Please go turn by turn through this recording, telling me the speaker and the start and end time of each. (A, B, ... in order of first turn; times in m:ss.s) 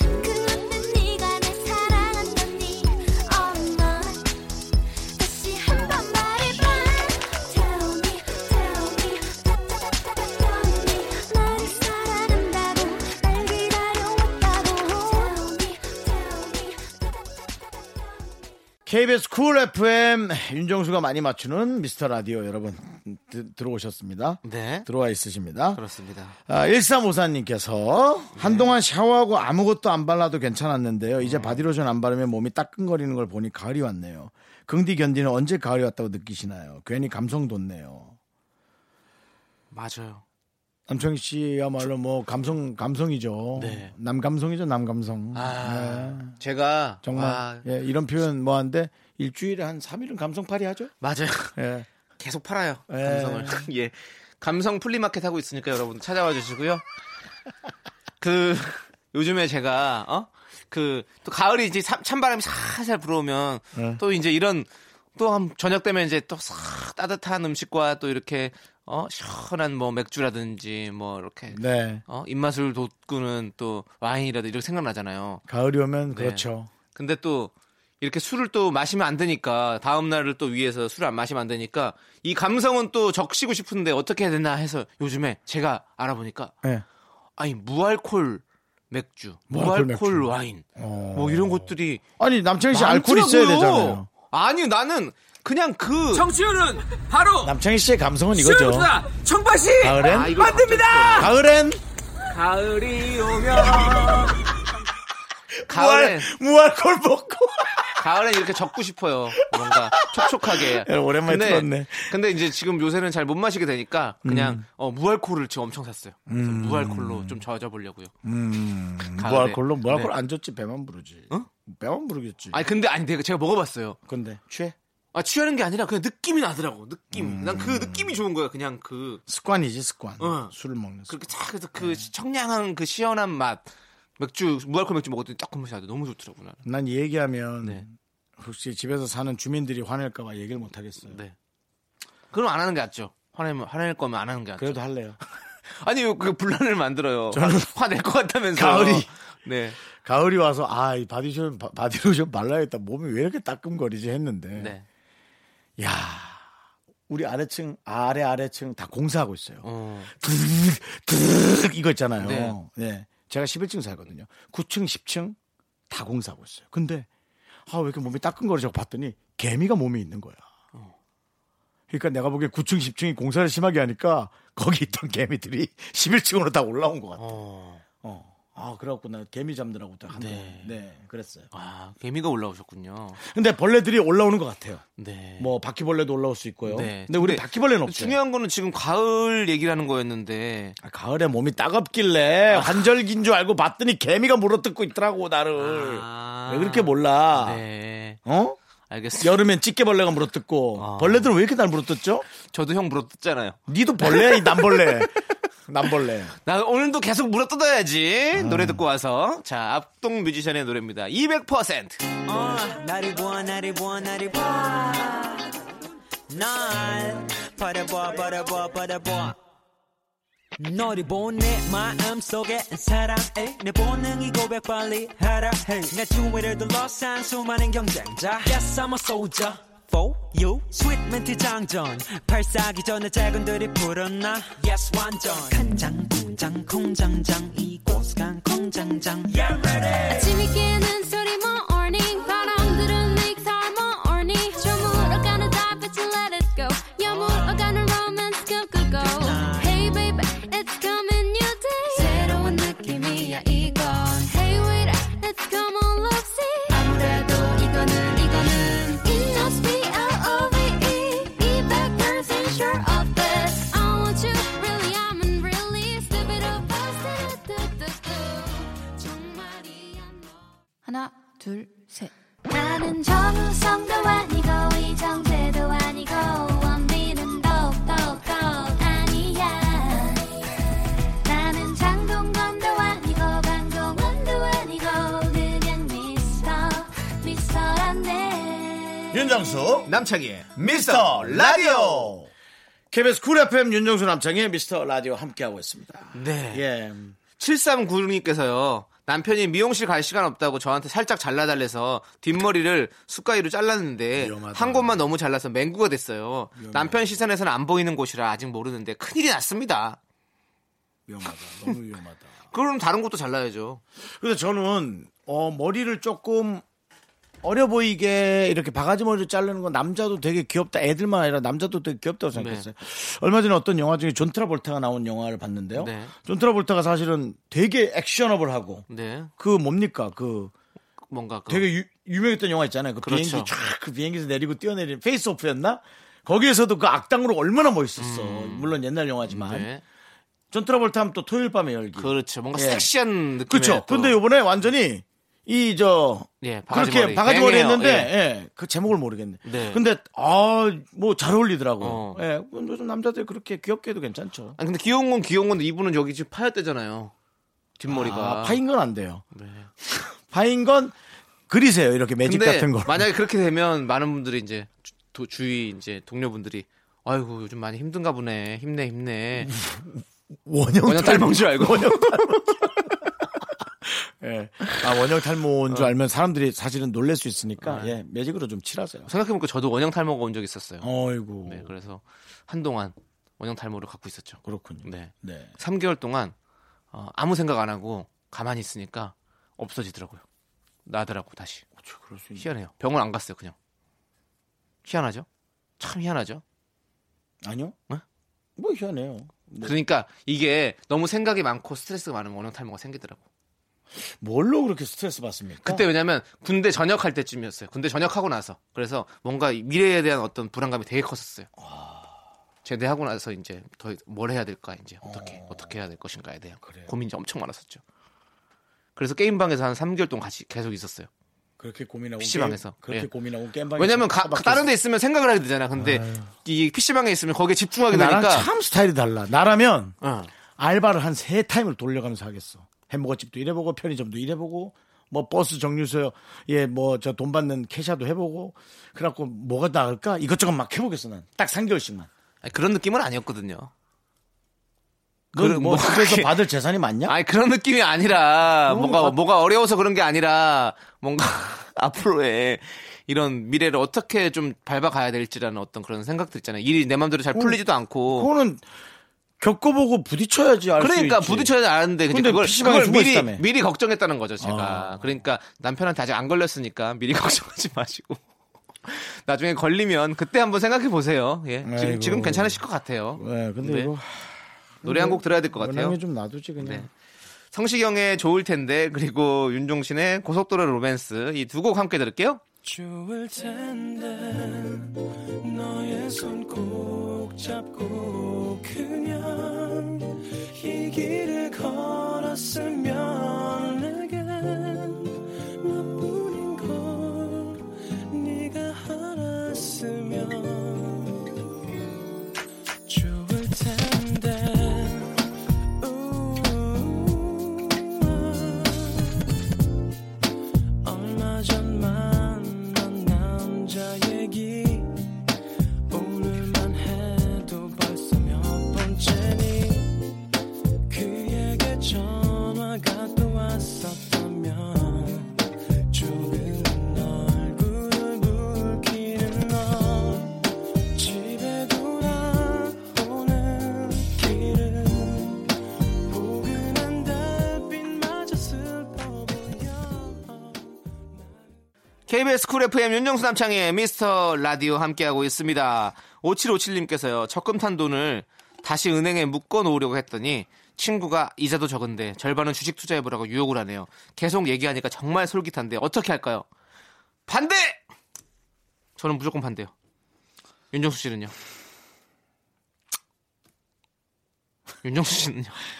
0:00.2-0:04.2 A
0:05.2-0:16.8 A
0:18.9-0:25.8 B
0:24.4-0:24.9 C
0:25.8-0:26.4 C
0:26.5-0:38.2 B
0:28.4-0:28.7 C
0:31.2-0:31.6 C
0:39.7-0:40.2 C
0:40.9-0:46.4 B
0:43.6-0:43.9 C
0:45.3-0:47.7 C
0:47.0-0:50.9 B
0:51.0-0:51.6 C
0:51.6-0:51.9 B
0:52.2-0:56.8 C
0:52.9-0:53.7 B
0:58.2-1:15.4 C
1:03.7-1:04.0 B
1:11.5-1:12.0 B
1:15.5-1:16.7 B
1:16.1-1:26.5 C
1:27.4-1:32.0 C
1:29.5-1:34.1 B
1:32.7-1:37.5 C
1:37.4-1:38.9 B
1:38.4-1:41.3 C
1:39.8-1:40.4 B
1:41.1-1:41.8 B
1:42.3-1:44.4 C
1:43.6-1:44.0 B
1:45.6-1:48.0 B
1:45.7-1:46.3 C
1:48.0-1:58.1 C
1:49.4-1:52.2 B
1:54.2-1:54.6 B
1:56.3-1:57.4 B
1:58.2-2:02.6 B
1:59.1-2:00.1 C
2:02.5-2:04.0 C
2:04.1-2:04.8 B
2:05.1-2:09.2 C
2:07.1-2:08.2 B
2:09.3-2:11.2 B
2:10.2-2:10.5 C
2:11.1-2:13.7 C
2:11.8-2:12.1 B
2:14.2-2:16.6 C
2:16.6-2:21.2 B
2:21.0-2:21.4 C
2:22.3-2:24.8 C
2:24.6-2:25.2 B
2:25.7-2:29.8 C
2:27.3-2:27.7 B
2:28.5-2:29.1 B
2:30.0-2:34.8 B
2:34.6-2:34.9 C
2:35.8-2:36.5 B
2:37.1-2:45.4 B
2:39.6-2:40.1 C
2:42.2-2:42.6 C
2:45.9-2:47.1 B
2:47.7-2:50.4 B
2:51.9-2:57.4 B
2:57.2-2:57.8 C
2:58.0-3:01.5 B
3:00.1-3:00.8 C
3:01.5-3:03.2 C
3:03.2-3:04.8 B
3:05.0-3:05.5 C
3:05.4-3:08.2 B
3:06.7-3:10.8 C
3:10.8-3:17.6 B
3:12.5-3:12.9 C
3:15.6-3:18.2 C
3:18.2-3:18.6 B
3:18.9-3:19.4 C
3:19.2-3:22.3 B
3:20.8-3:21.3 C
3:22.4-3:25.1 C
3:23.7-3:25.1 B
3:25.7-3:26.3 B
3:26.4-3:32.0 C
3:28.3-3:28.8 B
3:32.3-3:35.4 D
3:36.3-3:39.4 D
3:40.6-4:00.4 D
4:00.1-4:16.8 A
4:07.0-4:07.5 D
4:08.9-4:09.8 D
4:17.5-4:30.3 A
4:32.5-4:40.2 A
4:41.3-4:49.0 A
4:49.1-4:49.9 B
4:49.9-4:52.2 C
4:50.5-4:52.3 B
4:52.9-4:57.2 B
4:56.1-4:56.6 C
4:57.4-5:10.0 C
5:04.2-5:05.0 B
5:06.6-5:07.2 B
5:11.1-5:12.4 B
5:12.5-5:13.8 C
5:14.0-5:16.6 B
5:17.4-5:28.9 B
5:22.3-5:22.7 C
5:25.8-5:26.1 C
5:28.9-5:29.3 C
5:29.4-5:30.5 B
5:31.1-5:31.7 C
5:31.5-5:39.7 B
5:33.0-5:33.5 C
5:38.0-5:39.8 C
5:40.5-5:42.9 B
5:42.0-5:44.2 C
5:43.5-5:54.6 B
5:46.4-5:48.1 C
5:49.4-5:49.8 C
5:51.8-5:52.2 C
5:54.6-5:57.1 C
5:57.8-5:58.6 C
5:57.9-5:59.2 B
5:59.3-5:59.7 C
5:59.9-6:00.9 B
6:01.5-6:03.1 B
6:02.2-6:09.5 C
6:09.4-6:12.9 B
6:10.9-6:12.8 C
6:13.8-6:19.1 B
6:17.6-6:18.0 C
6:19.1-6:20.9 C
6:20.8-6:21.7 B
6:21.5-6:26.4 C
6:24.4-6:25.6 B
6:26.9-6:30.2 C
6:30.9-6:31.6 C
6:31.8-6:32.5 B
6:32.4-6:33.6 C
6:34.8-6:35.3 C
6:35.8-6:36.4 C
6:37.4-6:37.8 B
6:38.6-6:39.7 B
6:39.6-6:43.2 C
6:44.0-6:45.9 B
6:45.6-6:51.5 C
6:51.6-6:52.2 B
6:52.6-6:57.8 C
6:55.0-6:55.7 B
6:56.6-6:56.9 B
6:59.0-7:01.1 C
7:01.6-7:04.7 B
7:02.2-7:03.1 C
7:03.8-7:08.5 C
7:05.8-7:06.3 B
7:07.9-7:10.0 B
7:10.0-7:10.3 C
7:10.6-7:22.1 B
7:22.4-7:23.7 C
7:25.3-7:27.2 B
7:25.4-7:26.4 C
7:27.1-7:38.3 C
7:28.7-7:29.2 B
7:37.3-7:38.7 B
7:39.4-7:41.6 B
7:40.8-7:48.2 C
7:42.1-7:43.4 B
7:44.4-7:45.2 B
7:48.8-7:53.9 C
7:51.6-7:52.6 B
7:53.2-7:56.9 B
7:54.8-7:56.0 C
7:56.6-7:56.9 C
7:57.5-8:02.4 C
8:02.6-8:21.2 E
8:22.9-8:25.2 E
8:25.8-8:29.2 E
8:30.8-8:34.9 E
8:35.9-8:39.9 E
8:40.9-8:45.3 E
8:45.9-8:50.4 E
8:51.0-8:55.4 E
8:56.1-9:01.6 E
9:02.1-9:16.5 C
9:17.3-9:17.8 C
9:19.0-9:19.7 C
9:20.7-9:21.3 C
9:24.8-9:25.6 C